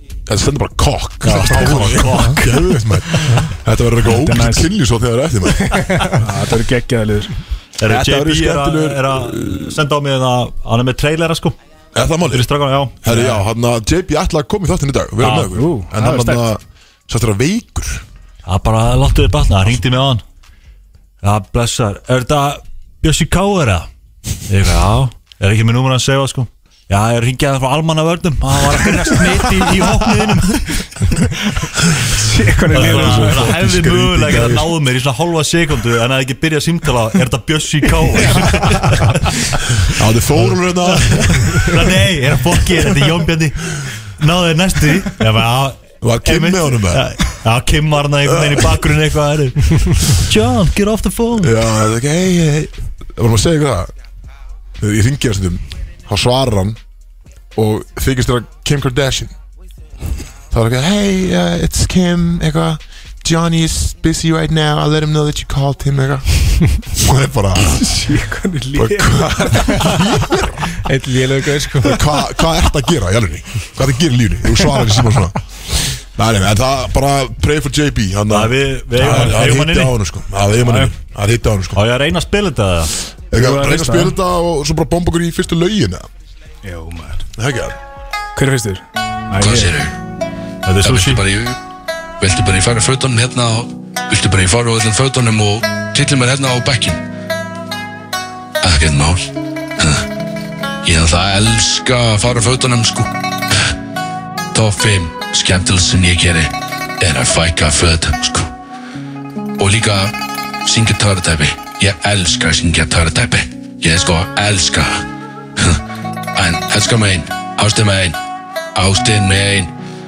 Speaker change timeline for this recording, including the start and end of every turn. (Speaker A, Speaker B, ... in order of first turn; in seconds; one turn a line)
Speaker A: 0.3-6.1
Speaker B: 1.2-2.8
Speaker C: 1.3-2.4
Speaker D: 4.0-4.7
Speaker C: 5.7-6.2
Speaker D: 6.2-7.3
Speaker B: 7.8-11.6
Speaker A: 7.8-9.8
Speaker A: 11.9-12.5
Speaker B: 12.2-13.0
Speaker A: 13.0-18.0
Speaker D: 13.1-13.4
Speaker B: 15.2-15.6
Speaker D: 15.5-16.5
Speaker B: 18.4-20.2
Speaker B: 21.2-23.9
Speaker B: 24.5-31.1
Speaker D: 28.9-29.8
Speaker D: 32.1-33.6
Speaker B: 32.7-51.5
Speaker A: 32.7-34.7
Speaker A: 39.8-41.9
Speaker A: 46.0-47.1
Speaker A: 48.2-48.8
Speaker A: 51.4-53.9
Speaker A: 54.8-56.8
Speaker A: 57.5-59.3
Speaker A: 60.5-67.9
Speaker D: 67.7-70.1
Speaker A: 68.7-70.5
Speaker C: 70.8-72.0
Speaker A: 71.8-81.8
Speaker B: 78.3-80.0
Speaker D: 79.0-79.3
Speaker D: 80.6-80.9
Speaker B: 81.7-82.9
Speaker A: 83.3-86.1
Speaker D: 83.3-84.2
Speaker D: 86.6-87.2
Speaker A: 87.4-87.8
Speaker D: 88.3-89.8
Speaker E: 89.4-90.0
Speaker B: 90.6-91.2
Speaker E: 90.8-91.6
Speaker E: 92.2-97.0
Speaker E: 98.6-100.1
Speaker E: 100.8-103.1
Speaker E: 104.5-108.5
Speaker E: 109.6-115.0
Speaker E: 115.6-115.8
Speaker E: 116.3-118.2
Speaker E: 118.7-119.7